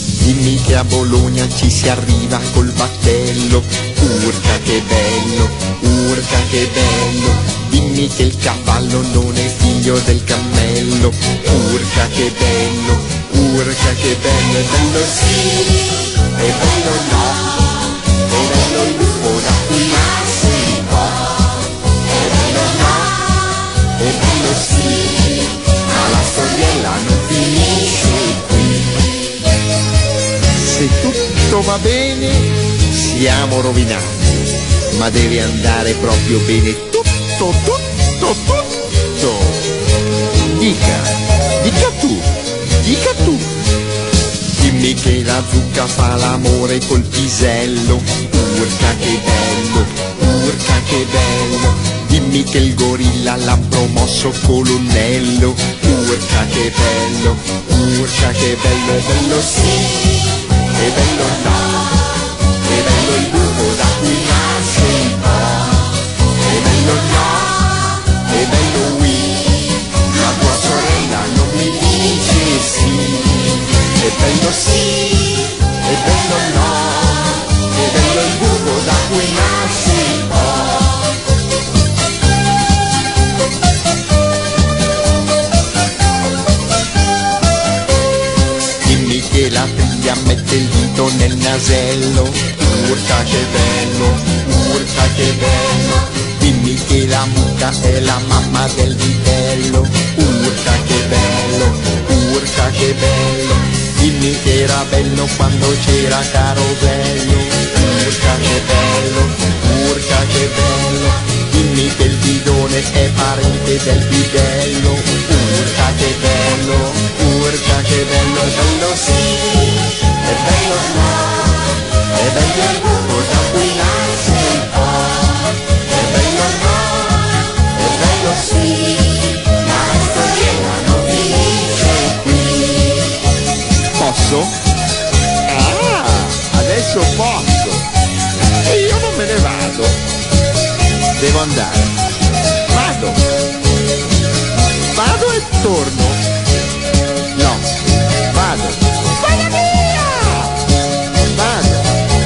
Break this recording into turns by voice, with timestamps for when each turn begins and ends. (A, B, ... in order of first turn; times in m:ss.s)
0:00.2-0:17.6 A
0:18.3-0:21.3 A
0:22.1-0:23.3 A
0:24.0-0:29.1 A
0:30.6-0:39.7 A
0:40.4-0:43.6 A
0:44.6-1:00.2 A
1:00.7-1:01.9 A
1:02.6-1:05.9 A
1:06.4-1:07.7 A
1:08.3-1:09.5 A
1:10.1-1:21.0 A
1:28.8-2:01.6 A
2:02.1-2:05.4 A
2:05.9-2:13.0 A
2:14.0-2:14.6 A
2:15.4-2:17.9 A
2:18.6-2:20.0 A
2:21.2-2:21.9 A
2:22.7-2:23.2 A
2:24.9-2:26.2 A
2:27.3-2:27.7 A
2:28.3-2:30.5 A
2:31.2-2:31.9 A